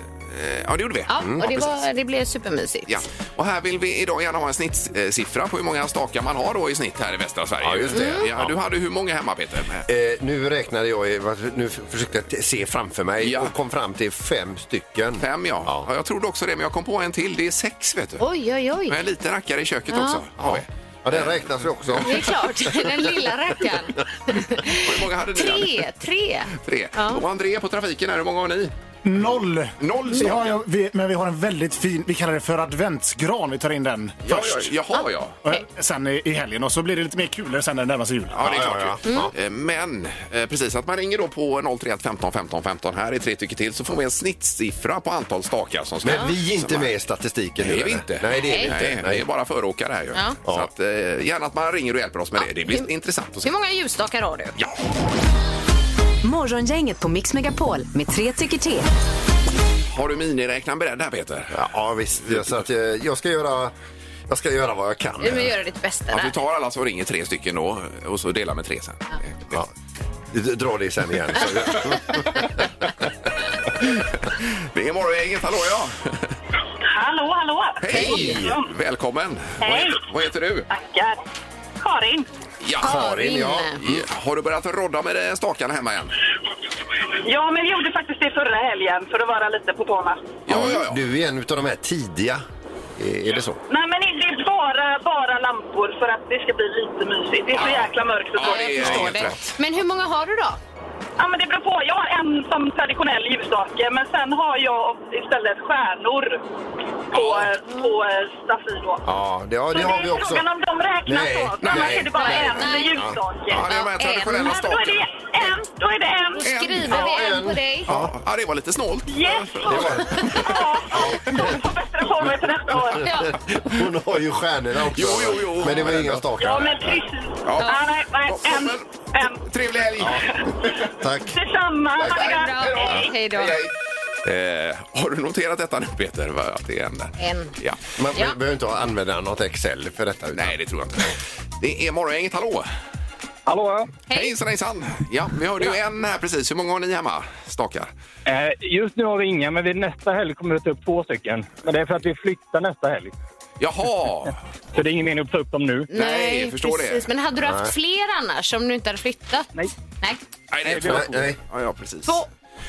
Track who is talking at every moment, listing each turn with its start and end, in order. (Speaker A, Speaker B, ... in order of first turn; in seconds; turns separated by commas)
Speaker A: 0.3-1.8, Speaker B: 1.1-3.0, Speaker C: 1.2-1.5, Speaker A: 2.9-9.9, Speaker C: 7.6-8.5, Speaker C: 9.9-15.9, Speaker A: 13.2-13.5, Speaker A: 15.2-18.2, Speaker B: 18.2-19.0, Speaker A: 18.9-22.3, Speaker B: 19.9-20.2, Speaker C: 20.4-22.4, Speaker B: 22.0-27.2, Speaker A: 24.7-25.9, Speaker A: 26.5-28.7, Speaker D: 29.0-34.6, Speaker A: 29.8-30.6, Speaker A: 34.2-35.4, Speaker D: 35.4-38.3, Speaker A: 38.3-46.9, Speaker C: 38.4-39.3, Speaker C: 46.0-49.2, Speaker A: 47.6-53.5, Speaker B: 48.4-48.7, Speaker B: 52.4-52.9, Speaker B: 53.4-54.5, Speaker E: 56.2-58.9, Speaker A: 59.9-61.6, Speaker C: 61.5-63.7, Speaker C: 64.3-65.5, Speaker B: 65.2-66.3, Speaker A: 66.1-69.6, Speaker C: 70.3-72.6, Speaker A: 74.3-76.3, Speaker F: 76.9-78.7, Speaker A: 77.8-80.7, Speaker B: 77.9-78.2, Speaker C: 77.9-78.5, Speaker F: 79.6-80.0, Speaker F: 80.7-81.2, Speaker F: 81.8-82.3, Speaker A: 82.6-83.1, Speaker C: 82.8-84.0, Speaker B: 82.8-83.8, Speaker A: 83.8-86.2, Speaker F: 87.2-90.3, Speaker A: 90.5-91.0, Speaker C: 90.5-92.4, Speaker C: 93.0-93.6, Speaker F: 93.7-99.1, Speaker A: 98.3-99.5, Speaker B: 98.4-100.6, Speaker F: 101.2-106.4, Speaker F: 107.1-109.0, Speaker C: 109.0-110.4, Speaker F: 109.7-113.6, Speaker C: 111.0-113.2, Speaker A: 111.6-112.0, Speaker B: 112.1-114.6, Speaker A: 113.5-115.0, Speaker F: 114.3-116.4, Speaker B: 116.3-117.9, Speaker A: 116.4-117.0, Speaker C: 116.8-118.1, Speaker A: 117.8-120.5, Speaker F: 119.1-123.1, Speaker C: 119.6-120.3, Speaker C: 120.9-121.5, Speaker C: 122.8-127.0, Speaker B: 123.0-123.3, Speaker A: 124.9-126.3, Speaker F: 126.4-129.4, Speaker A: 127.4-130.2, Speaker B: 127.6-127.8, Speaker C: 130.0-130.5, Speaker C: 131.0-131.4, Speaker F: 131.3-133.1, Speaker B: 132.1-133.6, Speaker A: 132.4-133.7, Speaker A: 134.2-137.8, Speaker B: 137.2-137.5, Speaker C: 138.0-140.6, Speaker A: 140.3-142.7, Speaker G: 143.5-143.9, Speaker A: 144.1-147.9, Speaker G: 148.3-153.1, Speaker A: 153.6-154.3, Speaker G: 154.8-155.8, Speaker B: 155.9-160.2, Speaker A: 155.9-157.1, Speaker C: 157.4-157.7, Speaker A: 160.5-162.2, Speaker C: 160.8-161.4